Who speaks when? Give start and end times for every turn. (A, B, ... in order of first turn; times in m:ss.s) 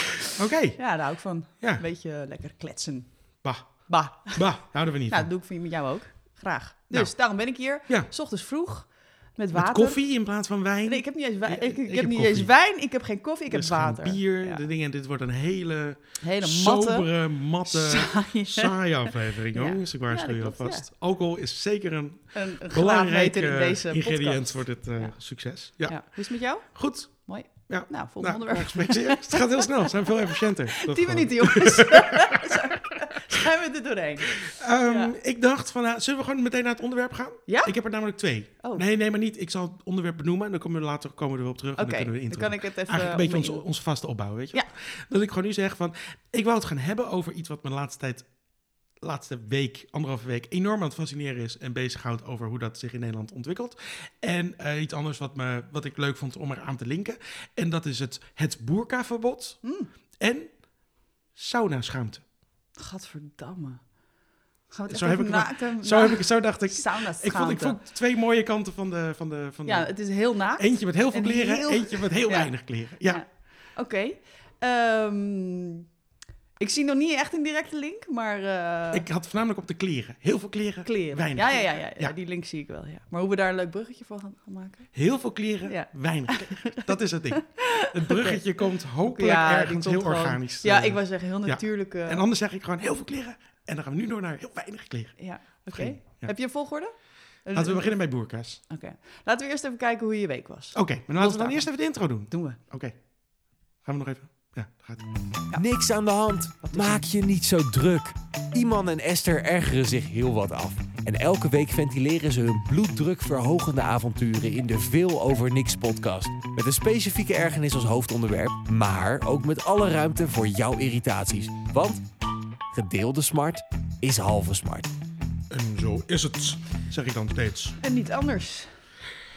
0:00.2-0:00.8 A
0:00.8-0:10.1 B
0:03.4-0:05.3 A
0:09.5-0:12.5 A
0:10.8-0:14.6 B
0:13.5-0:32.7 A
0:16.2-0:18.9 B
0:19.5-0:20.9 B
0:22.3-0:35.1 B
0:34.3-0:48.3 A
0:37.5-0:37.7 B
0:41.8-0:43.7 B
0:49.0-0:59.6 A
0:59.6-0:59.9 B
1:00.2-1:00.6 A
1:01.3-1:02.2 A
1:02.8-1:04.0 B
1:04.7-1:07.8 B
1:04.9-1:10.0 A
1:09.6-1:15.8 B
1:10.6-1:13.2 A
1:16.6-1:19.0 B
1:18.9-1:22.2 A
1:20.8-1:25.0 B
1:24.9-1:36.3 A
1:25.6-1:28.4 B
1:29.1-1:32.2 B
1:35.2-1:37.9 B
1:37.5-1:38.6 A
1:38.7-1:42.6 B
1:40.8-1:43.0 A
1:43.8-1:45.0 A
1:45.5-2:02.0 C
1:46.6-1:47.1 B
2:02.7-2:04.9 C
2:05.5-2:07.8 A
2:07.8-2:08.7 B